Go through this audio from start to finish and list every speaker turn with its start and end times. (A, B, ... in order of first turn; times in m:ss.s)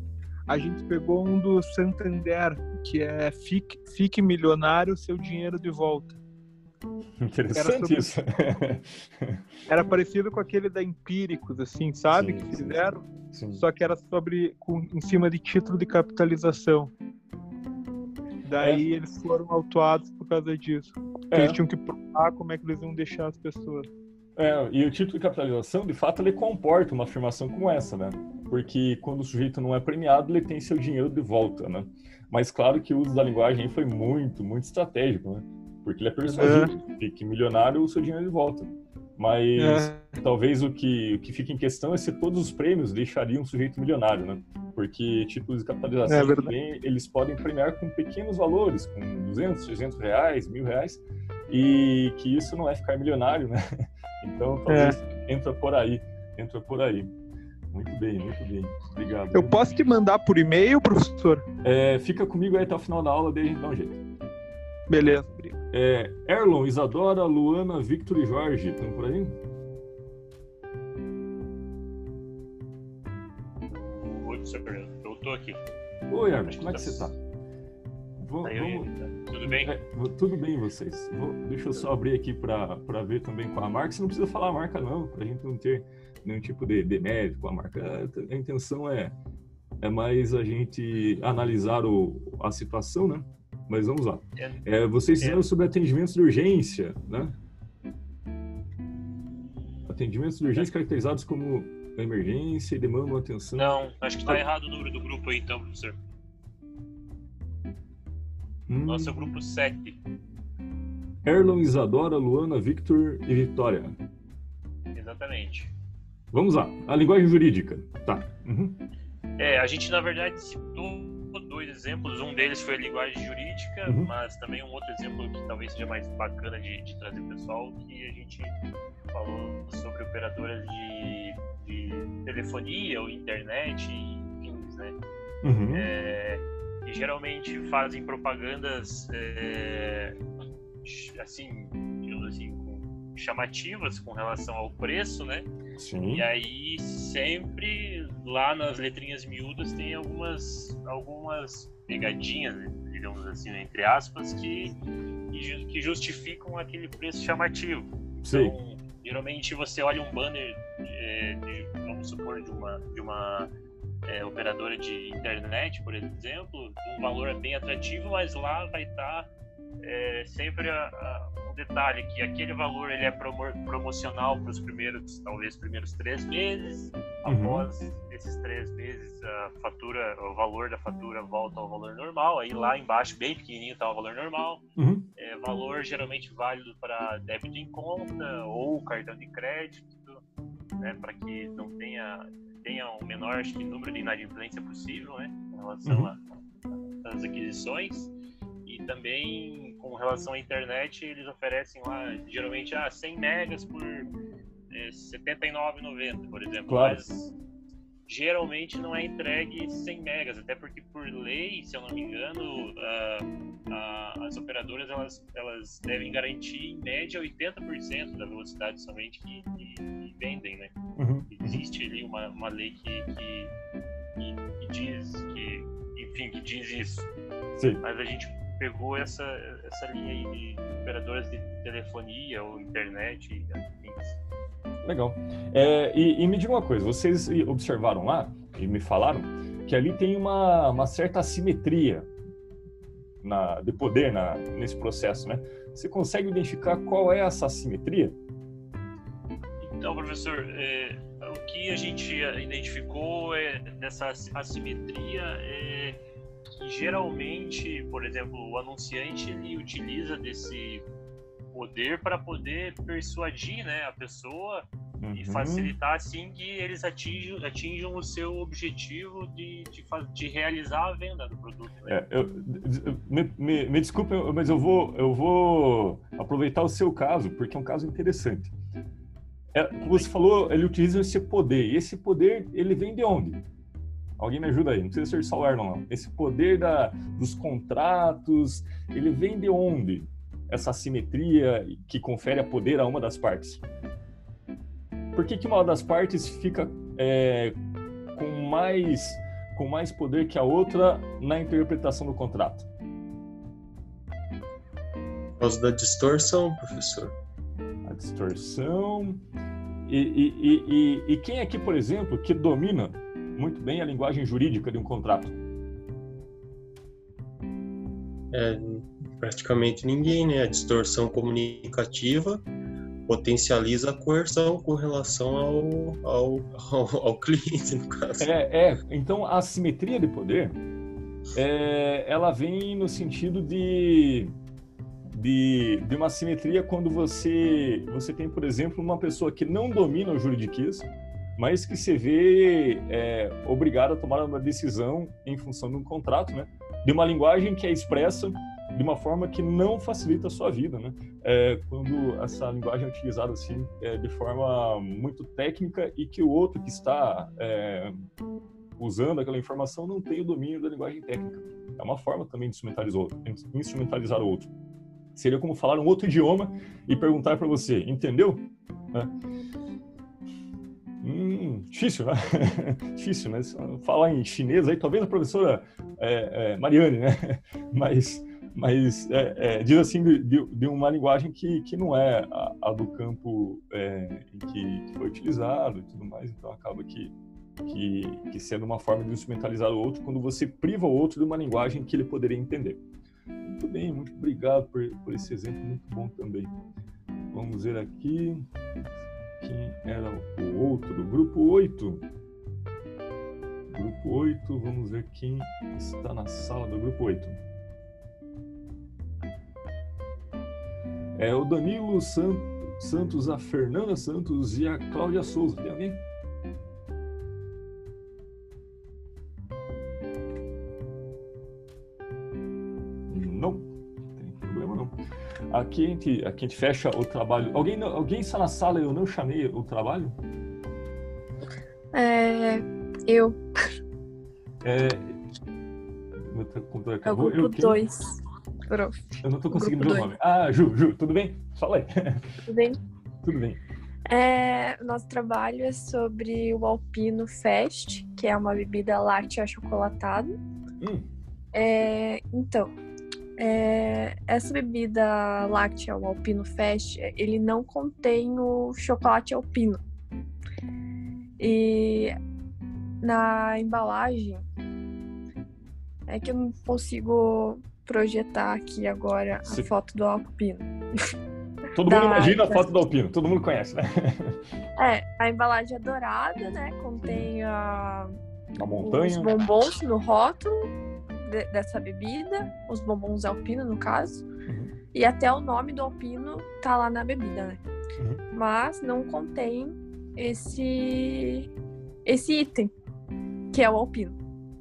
0:00.5-0:06.2 A
0:07.2-0:09.4 B
0:07.6-0:08.1 A
0:09.7-0:16.9 A
0:12.1-0:13.6 B
0:18.4-0:23.9 A
0:21.3-0:21.6 B
0:24.4-0:57.1 B
0:36.3-0:36.7 A
0:39.6-0:40.2 A
0:46.1-0:46.5 A
0:54.7-0:55.0 A
0:57.7-0:59.6 B
0:59.3-1:01.4 A
1:01.6-1:04.0 B
1:04.9-1:05.6 A
1:05.7-1:09.4 B
1:13.7-1:15.6 C
1:16.1-1:17.2 B
1:16.5-1:17.1 C
1:18.2-1:18.9 B
1:18.4-1:19.7 C
1:19.4-1:29.2 B
1:29.8-1:37.4 B
1:35.2-1:35.4 C
1:39.9-1:44.4 B
1:43.6-1:46.0 C
1:48.7-1:49.1 B
1:48.9-1:50.0 C
1:51.2-1:54.0 B
1:54.9-1:55.7 C
1:56.3-1:58.8 B
1:59.4-2:08.6 C
2:03.9-2:04.1 B
2:09.1-2:15.0 C
2:15.4-2:15.9 B
2:15.7-2:20.2 C
2:20.8-2:25.5 C
2:25.8-2:26.3 B
2:26.1-2:34.8 C
2:35.3-2:43.5 C
2:38.2-2:38.6 B
2:44.1-2:49.3 C
2:49.8-3:04.6 C
2:57.2-2:57.7 B
3:04.8-3:05.1 B
3:05.2-3:10.2 C
3:10.8-3:16.2 C
3:15.8-3:16.1 B
3:17.0-3:18.1 C
3:18.6-3:24.1 C
3:24.7-3:27.3 C
3:26.7-3:27.0 B
3:28.1-3:40.7 C
3:41.0-3:41.6 B
3:41.3-3:43.5 C
3:44.2-3:47.1 C
3:47.6-3:47.8 B
3:47.8-3:54.2 C
3:54.8-4:02.1 B
4:03.2-4:08.2 B
4:09.6-4:16.0 C
4:16.6-4:20.8 C
4:21.5-4:32.0 C
4:25.0-4:25.7 B
4:31.9-4:38.5 B
4:39.5-4:43.4 B
4:44.2-4:53.6 B
4:55.1-4:57.6 B
4:58.1-5:02.7 B
5:05.4-5:07.2 D
5:07.8-5:09.2 B
5:09.9-5:15.4 B
5:18.3-5:22.5 D
5:23.1-5:28.3 D
5:28.2-5:30.6 B
5:31.4-5:34.3 B
5:35.1-5:58.0 B
5:58.8-6:04.5 B
6:05.2-6:09.1 B
6:11.0-6:27.1 B
6:27.6-6:32.8 B
6:33.4-6:36.5 B
6:37.3-6:38.5 B
6:39.4-6:42.0 B
6:43.7-6:47.4 B
6:51.2-6:56.0 B
7:03.1-7:04.9 B
7:05.5-7:10.2 B
7:11.9-7:13.4 E
7:14.6-7:15.2 B
7:16.2-7:17.8 B
7:17.1-7:18.1 E
7:18.7-7:20.1 E
7:19.2-7:22.3 B
7:22.5-7:22.8 E
7:23.2-7:23.6 B
7:24.1-7:30.3 E
7:30.8-7:31.1 B
7:31.5-7:32.7 E
7:33.4-7:39.8 E
7:41.4-7:42.2 E
7:43.0-7:44.4 E
7:46.1-7:50.7 E
7:49.4-7:49.7 B
7:51.8-7:54.4 B
7:51.8-7:52.7 E
7:54.8-7:58.2 E
7:57.0-7:57.3 B
7:58.6-7:59.4 B
7:58.8-8:04.3 E
8:04.5-8:04.7 B
8:04.9-8:07.6 E
8:08.4-8:11.5 E
8:12.0-8:12.7 E
8:13.5-8:14.2 E